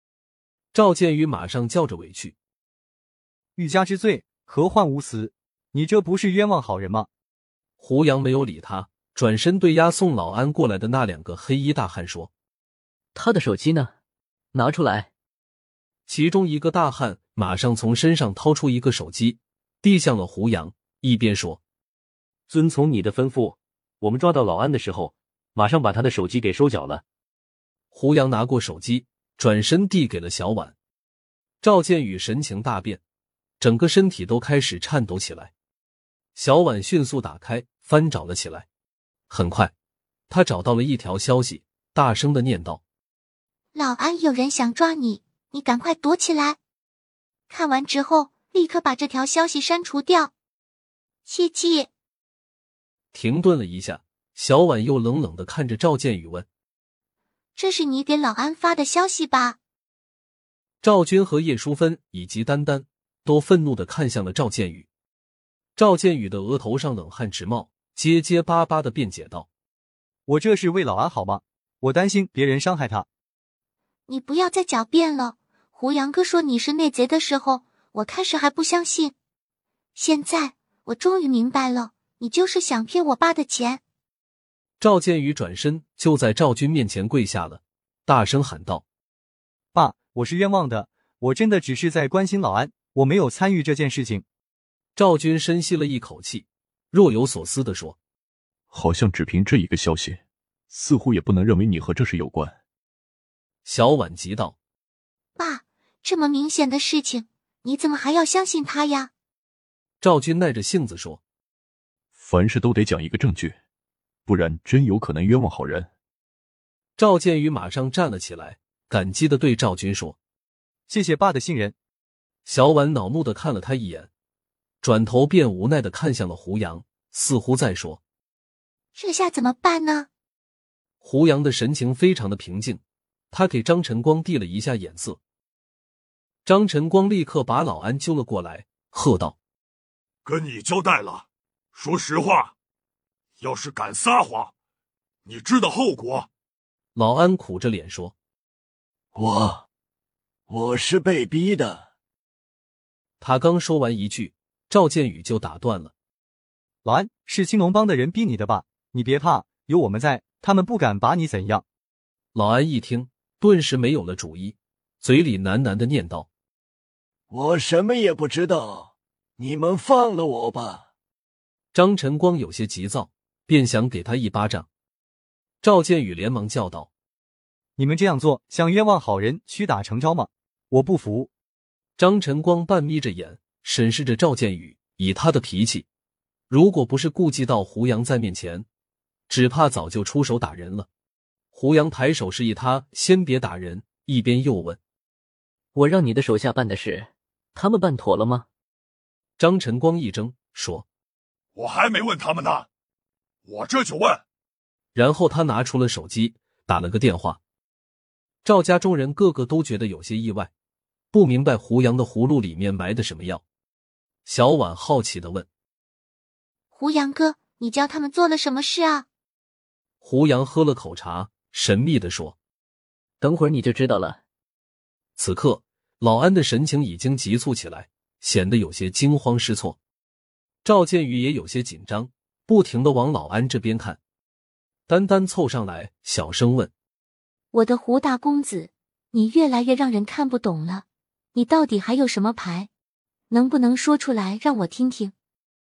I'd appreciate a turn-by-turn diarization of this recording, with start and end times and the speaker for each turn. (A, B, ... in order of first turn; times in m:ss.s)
0:00.7-0:02.4 A
0:03.6-0:07.1 B
0:07.8-0:12.3 A
0:13.2-0:13.9 C
0:14.5-0:15.1 C
0:16.1-0:21.6 A
0:22.5-0:27.0 D
0:27.9-0:30.8 A
0:31.6-0:33.0 A
0:33.6-0:35.5 A
0:36.4-0:38.7 A
0:39.3-0:39.7 A
0:40.3-0:42.8 A
0:43.8-0:46.6 E
0:47.5-0:50.3 E
0:51.3-0:51.9 E
0:53.1-0:56.5 A
0:57.6-0:59.6 E
1:00.8-1:04.9 A
1:05.8-1:09.5 A
1:10.3-1:13.1 B
1:14.1-1:19.1 E
1:20.0-1:23.8 E
1:24.8-1:28.8 A
1:29.7-1:34.2 B
1:35.0-1:38.0 A
1:38.7-1:42.6 F
1:43.6-1:44.6 A
1:45.4-1:49.1 E
1:50.0-1:51.2 A
1:52.2-1:53.6 F
1:54.3-1:55.9 F
1:57.0-2:00.2 A
2:00.9-2:01.7 B
2:02.4-2:04.1 A
2:04.8-2:08.0 A
2:09.0-2:10.1 E
2:11.0-2:12.8 A
2:13.3-2:15.2 A
2:16.4-2:19.4 A
2:20.2-2:22.5 G
2:23.4-2:24.5 G
2:25.2-2:26.3 G
2:27.0-2:28.2 A
2:29.2-2:29.6 H
2:30.5-2:31.9 H
2:33.2-2:35.9 A
2:36.8-2:41.6 B
2:42.4-2:46.3 A
2:47.3-2:50.9 H
2:51.7-2:54.7 A
2:55.6-2:56.9 A
2:57.8-3:01.3 B
3:02.0-3:05.9 A
3:06.5-3:08.7 A
3:09.3-3:10.9 A
3:11.5-3:14.8 A
3:15.8-3:18.4 C
3:19.4-3:20.9 A
3:21.6-3:22.7 G
3:23.4-3:24.2 G
3:25.0-3:27.4 A
3:28.4-3:30.5 A
3:31.1-3:33.4 A
3:34.3-3:35.5 A
3:36.7-3:39.1 E
3:40.0-3:42.4 A
3:43.2-3:44.2 C
3:45.2-3:49.8 A
3:50.6-3:54.0 A
3:54.9-3:56.7 A
3:57.5-4:02.7 E
4:03.3-4:05.1 E